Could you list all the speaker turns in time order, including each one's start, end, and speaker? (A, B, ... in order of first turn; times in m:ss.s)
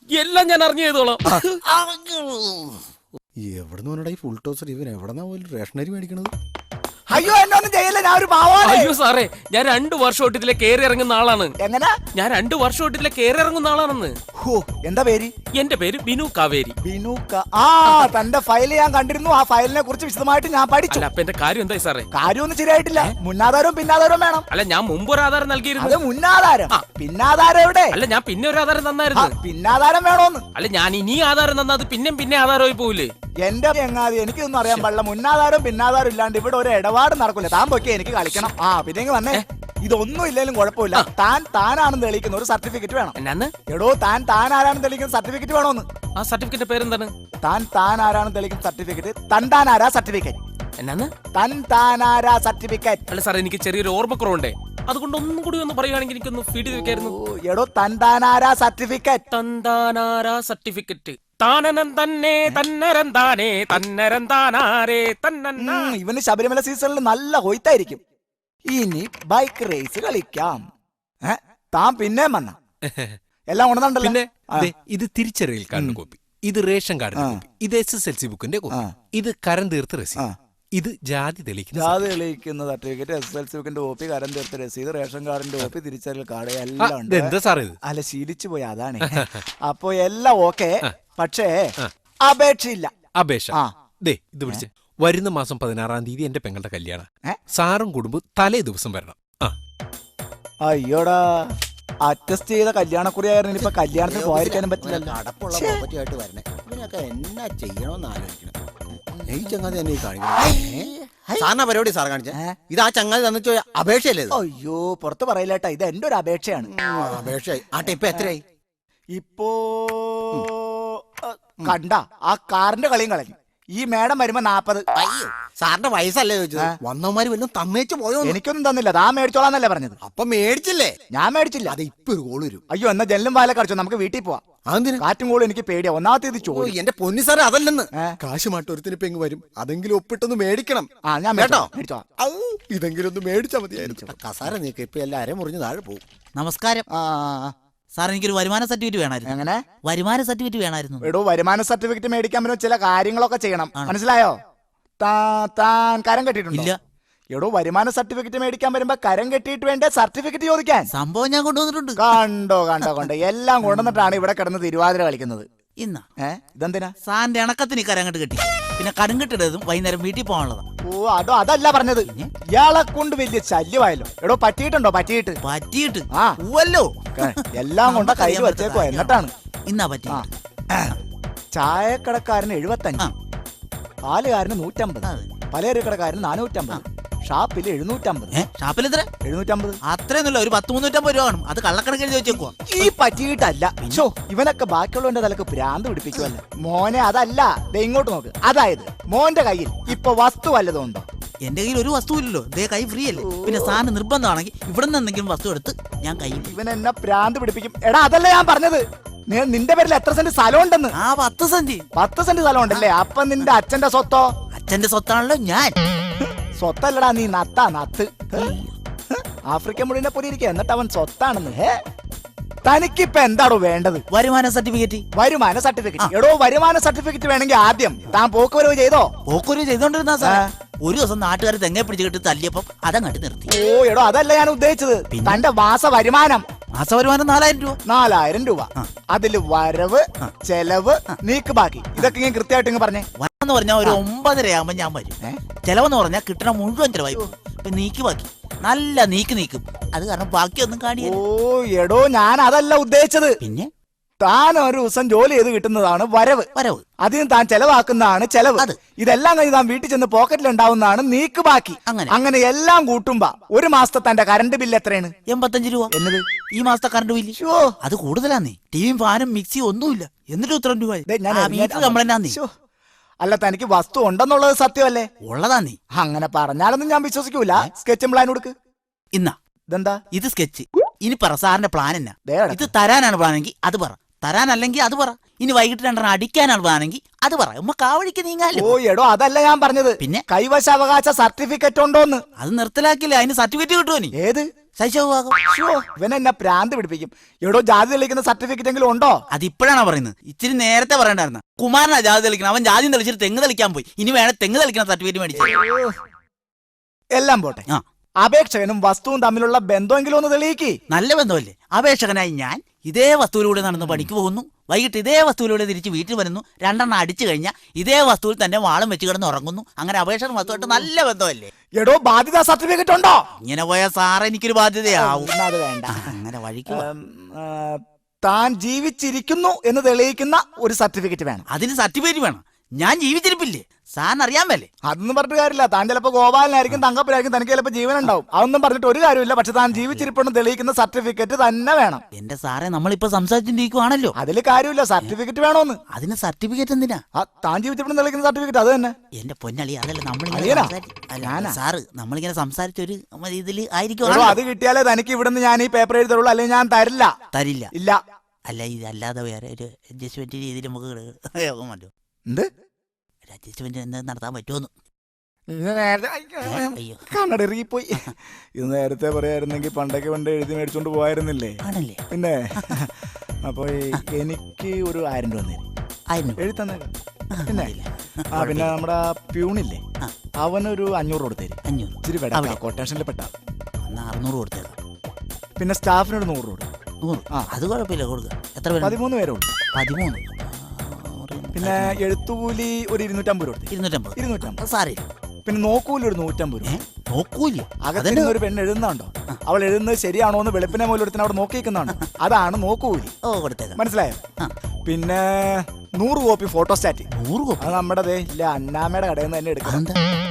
0:00.1-0:01.6 A
0:01.3-0:02.8 B
0:03.4-0:06.3 B
0:07.1-0:08.9 C
0:08.6-0:11.5 A
0:11.6-0:12.0 C
0:12.2-0:14.2 A
0:14.4-0:15.3 C
0:15.6-0:16.8 A
0:16.8-0:21.1 C
0:17.9-0:18.1 A
0:20.9-0:22.1 A
0:22.1-0:24.5 C
0:24.5-0:26.0 A
0:25.8-0:28.0 C
0:27.9-0:29.3 A
0:29.1-0:30.4 C
0:30.6-0:33.1 A
0:33.4-0:43.2 C
0:43.2-0:43.5 A
0:43.7-0:45.9 C
0:46.2-0:47.1 A
0:47.4-0:50.4 C
0:50.8-0:51.1 A
0:51.4-0:53.0 C
0:53.1-0:57.2 A
0:56.7-0:59.2 C
0:59.3-1:05.9 A
1:05.6-1:08.0 C
1:08.7-1:10.6 C
1:11.3-1:12.6 C
1:13.5-1:14.7 C
1:14.0-1:20.2 D
1:15.8-1:16.0 C
1:17.2-1:17.4 C
1:20.8-1:22.1 D
1:21.8-1:31.7 C
1:26.8-1:27.8 D
1:29.0-1:29.4 D
1:32.2-1:32.9 C
1:33.2-1:39.5 D
1:40.6-1:41.5 C
1:42.0-1:45.8 C
1:43.6-1:48.6 B
1:49.3-1:54.4 B
1:54.3-1:56.7 C
1:56.7-1:58.4 B
1:59.2-2:04.8 C
2:05.0-2:08.4 B
2:08.2-2:10.0 C
2:10.0-2:11.0 B
2:11.1-2:11.8 C
2:11.7-2:12.6 B
2:12.7-2:14.4 C
2:14.7-2:15.0 B
2:15.0-2:16.8 C
2:16.4-2:26.0 B
2:21.1-2:22.0 C
2:23.8-2:24.2 C
2:26.4-2:26.8 E
2:26.9-2:27.5 C
2:27.9-2:29.3 E
2:29.2-2:29.6 C
2:29.8-2:31.1 E
2:31.0-2:34.4 C
2:35.0-2:36.7 C
2:37.3-2:40.9 C
2:40.9-2:42.0 E
2:42.0-2:45.5 C
2:43.7-2:44.1 E
2:45.8-2:46.0 E
2:46.2-2:46.9 C
2:47.0-2:50.6 E
2:50.9-2:55.4 C
2:55.4-3:00.3 E
2:56.1-2:56.4 C
2:57.2-2:59.3 C
3:00.1-3:01.0 C
3:01.6-3:03.1 C
3:04.0-3:08.4 C
3:05.0-3:05.4 E
3:08.3-3:09.1 E
3:09.2-3:09.8 C
3:09.8-3:13.2 E
3:12.3-3:21.1 C
3:21.4-3:26.6 E
3:23.1-3:23.8 C
3:26.3-3:30.9 C
3:30.9-3:31.9 E
3:32.0-3:34.3 C
3:34.5-3:35.8 E
3:36.4-3:38.5 C
3:38.3-3:38.7 E
3:39.1-3:41.8 C
3:42.6-3:44.0 C
3:44.1-3:45.0 E
3:45.2-3:49.1 C
3:49.3-3:53.5 E
3:50.2-3:50.5 C
3:53.5-3:56.4 C
3:55.1-3:55.4 E
3:56.8-3:57.8 E
3:57.9-4:03.1 C
4:03.2-4:11.2 E
4:11.0-4:13.4 C
4:13.4-4:13.7 E
4:14.2-4:16.5 C
4:16.6-4:16.8 E
4:17.0-4:25.1 C
4:21.9-4:22.1 E
4:25.3-4:25.9 E
4:25.9-4:26.2 C
4:26.6-4:32.4 E
4:27.4-4:27.8 C
4:31.1-4:32.5 C
4:33.2-4:35.1 C
4:35.2-4:35.8 E
4:35.9-4:38.5 C
4:39.7-4:40.0 C
4:40.1-4:48.8 E
4:42.3-4:42.7 C
4:48.5-4:52.2 C
4:52.4-4:54.1 E
4:54.2-4:54.4 C
4:54.8-4:55.4 E
4:55.5-4:59.2 C
4:59.3-5:05.6 E
5:05.4-5:06.0 C
5:07.2-5:07.6 C
5:08.2-5:10.8 C
5:10.9-5:21.5 E
5:13.7-5:14.1 C
5:20.5-5:20.9 C
5:21.8-5:23.2 C
5:23.4-5:25.3 E
5:24.9-5:26.2 C
5:25.9-5:26.9 E
5:26.7-5:31.5 C
5:31.5-5:34.7 E
5:34.9-5:42.0 C
5:39.7-5:40.1 E
5:42.1-5:44.2 E
5:44.2-5:45.8 C
5:45.9-5:47.0 E
5:47.2-5:48.9 C
5:49.2-5:54.4 E
5:50.3-5:51.6 C
5:54.0-5:57.1 C
5:57.3-5:57.7 E
5:57.8-5:58.0 C
5:58.5-6:01.9 E
6:03.3-6:04.7 E
6:05.5-6:12.9 C
6:06.4-6:07.0 E
6:11.6-6:12.0 E
6:13.5-6:15.6 C
6:16.1-6:16.4 E
6:16.4-6:16.9 C
6:17.4-6:18.7 E
6:17.5-6:17.7 C
6:18.3-6:19.8 C
6:20.4-6:23.3 C
6:21.7-6:22.6 E
6:23.9-6:24.8 E
6:25.6-6:26.7 C
6:27.0-6:29.0 E
6:28.8-6:29.6 C
6:29.7-6:32.0 E
6:31.6-6:34.6 C
6:33.7-6:35.0 E
6:35.5-6:36.8 C
6:36.6-6:38.4 E
6:37.8-6:43.1 C
6:43.2-6:43.8 E
6:43.8-6:44.2 C
6:44.9-6:47.1 C
6:47.1-6:47.7 E
6:47.6-6:49.8 C
6:49.6-6:50.0 E